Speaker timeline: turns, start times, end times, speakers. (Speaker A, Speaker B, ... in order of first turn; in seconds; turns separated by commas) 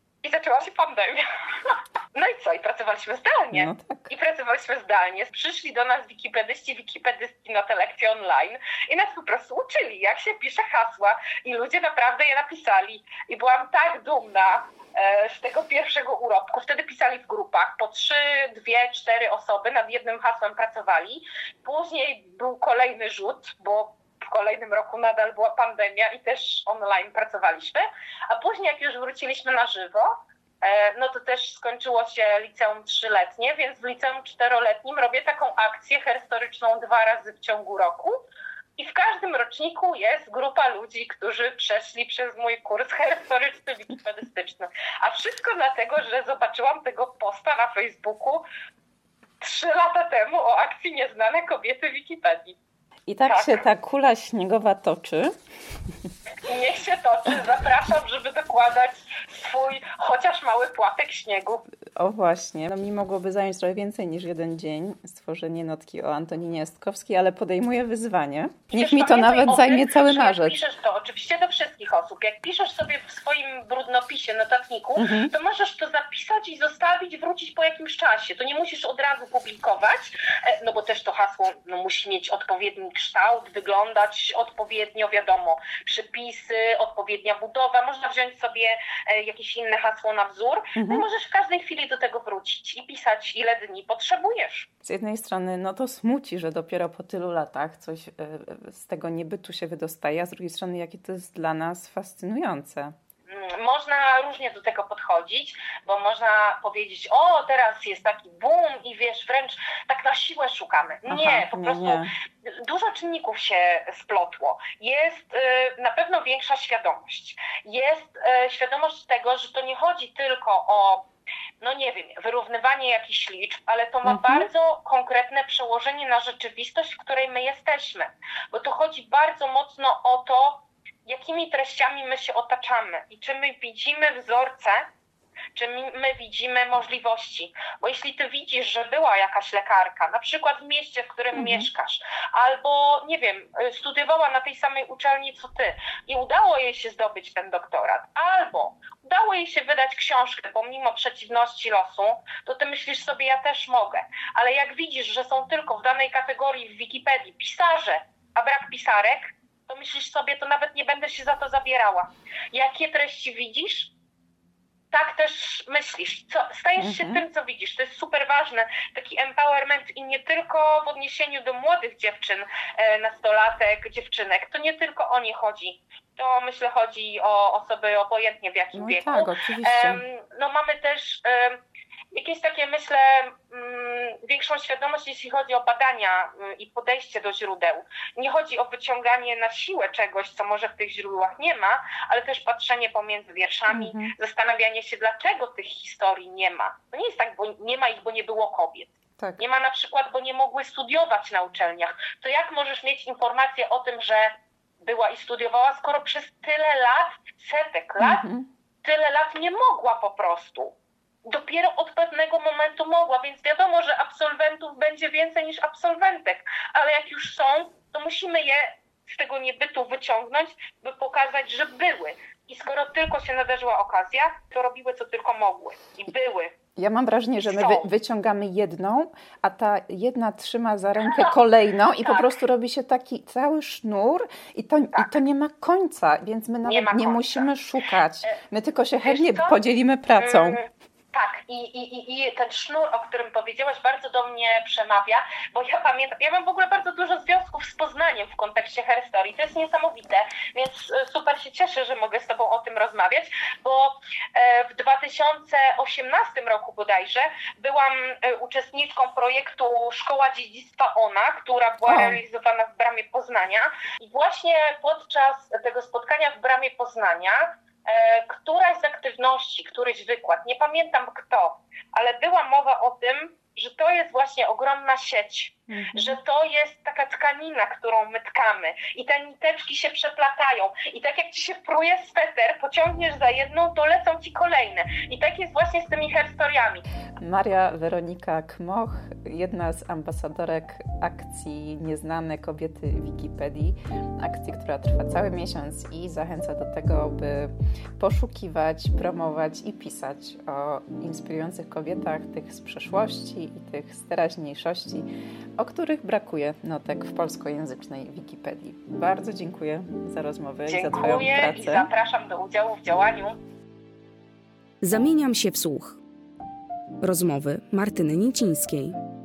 Speaker A: 0.2-38.2, Speaker B: 3.5-4.1, Speaker A: 38.8-48.5, Speaker A: 49.4-52.6, Speaker B: 53.1-55.3, Speaker A: 53.2-53.6, Speaker A: 56.4-61.6, Speaker B: 62.0-70.6, Speaker A: 68.7-94.7, Speaker B: 75.0-75.3, Speaker B: 90.8-91.0, Speaker B: 94.8-102.9, Speaker A: 103.3-121.0, Speaker B: 111.1-112.1, Speaker A: 121.6-134.9, Speaker B: 124.0-124.5, Speaker A: 135.5-163.9, Speaker B: 141.3-141.7, Speaker A: 164.9-181.6, Speaker B: 166.8-167.2, Speaker B: 178.7-180.0, Speaker A: 182.1-208.2, Speaker B: 193.7-194.1, Speaker B: 208.0-208.5, Speaker A: 208.8-226.6, Speaker B: 226.8-240.6, Speaker A: 227.4-227.9, Speaker A: 231.0-231.3, Speaker A: 231.9-232.4, Speaker A: 236.6-237.5, Speaker A: 239.0-239.6, Speaker A: 240.2-286.8, Speaker B: 261.9-262.2, Speaker B: 275.7-276.2, Speaker B: 287.2-311.9, Speaker A: 310.7-313.4, Speaker C: 314.8-316.0, Speaker C: 317.0-319.0